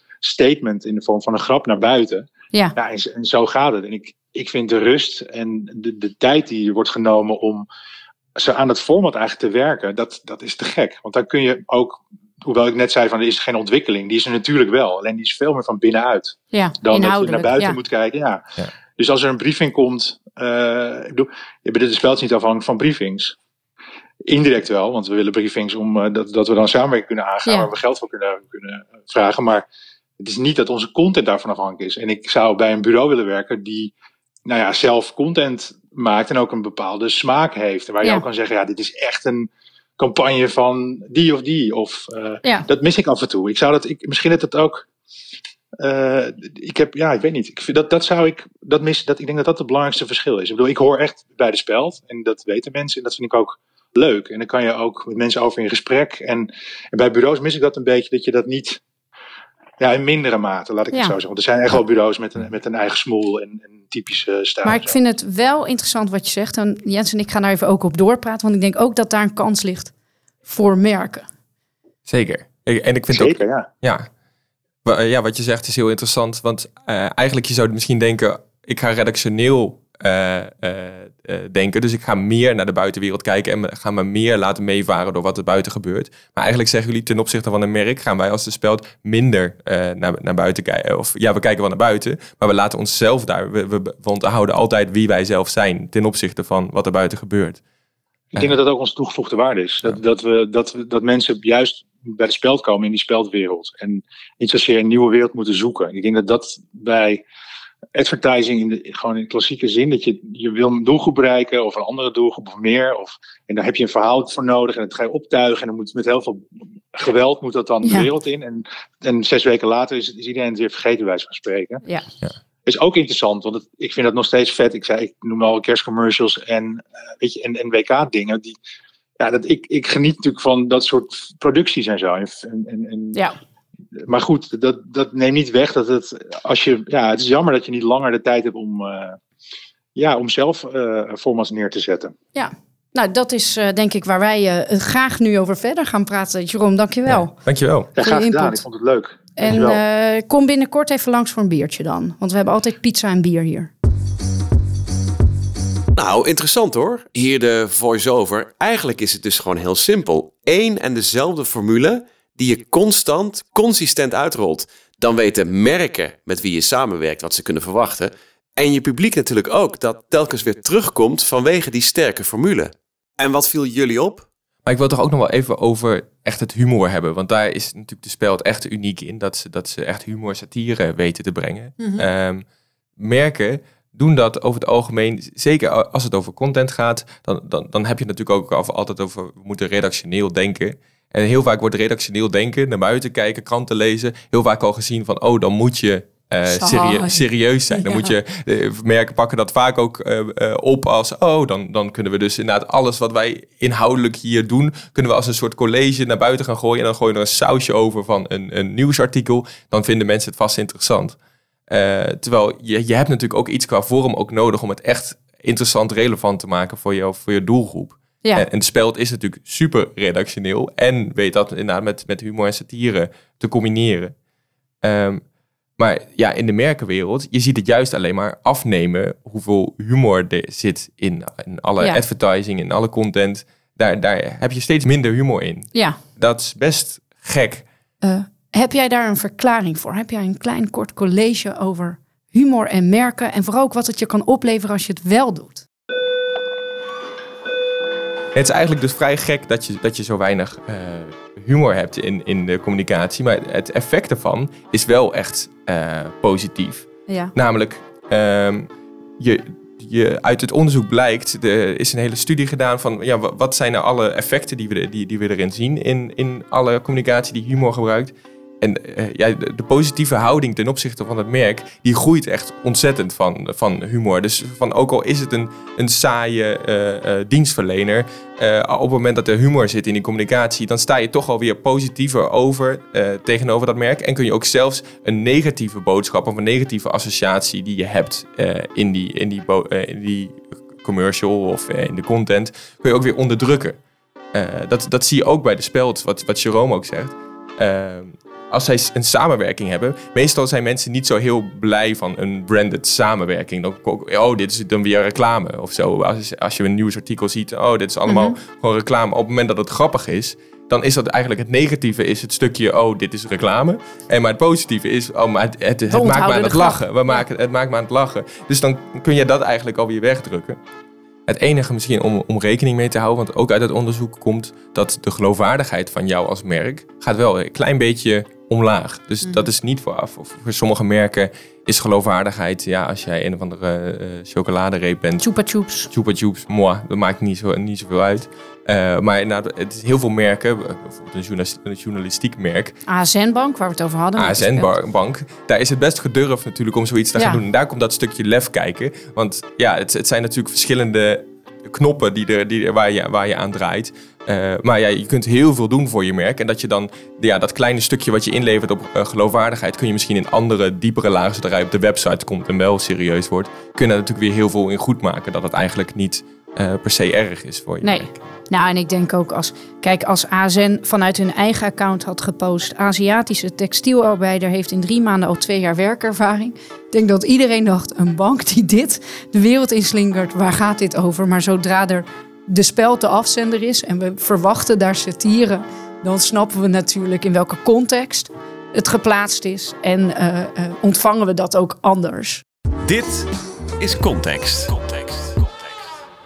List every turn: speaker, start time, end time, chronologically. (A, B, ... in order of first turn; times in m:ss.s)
0:00.2-0:07.6 A
0:08.4-0:18.4 A
0:16.5-0:17.8 B
0:19.0-0:23.4 A
0:24.2-0:29.7 A
0:30.2-0:33.9 A
0:34.4-0:44.8 A
0:45.8-0:58.8 A
0:59.8-1:05.0 A
1:04.6-1:09.9 B
1:10.4-1:11.3 B
1:12.1-1:14.1 C
1:13.1-1:13.7 A
1:14.8-1:37.6 C
1:38.3-1:47.2 A
1:47.9-2:01.8 A
1:57.8-1:58.1 B
2:02.6-2:08.6 A
2:09.2-2:13.2 A
2:14.1-2:19.2 A
2:20.0-2:22.1 A
2:22.3-2:27.3 B
2:27.0-2:27.9 C
2:27.9-2:29.8 A
2:28.0-2:28.6 B
2:29.4-2:33.7 B
2:36.0-2:54.3 D
2:54.6-3:02.4 C
3:03.0-3:31.2 C
3:16.4-3:18.1 B
3:31.7-3:44.1 C
3:44.8-3:45.2 C
3:45.8-3:57.6 C
3:58.0-4:05.6 B
4:08.3-4:53.8 C
4:17.1-4:17.3 B
4:54.3-5:20.6 C
5:08.0-5:08.4 B
5:15.9-5:17.2 B
5:21.3-5:35.2 C
5:35.2-5:35.9 B
5:35.9-5:42.7 C
5:42.9-5:44.7 B
5:44.2-6:08.2 C
6:07.8-6:32.4 B
6:32.8-6:33.3 D
6:33.8-6:35.9 D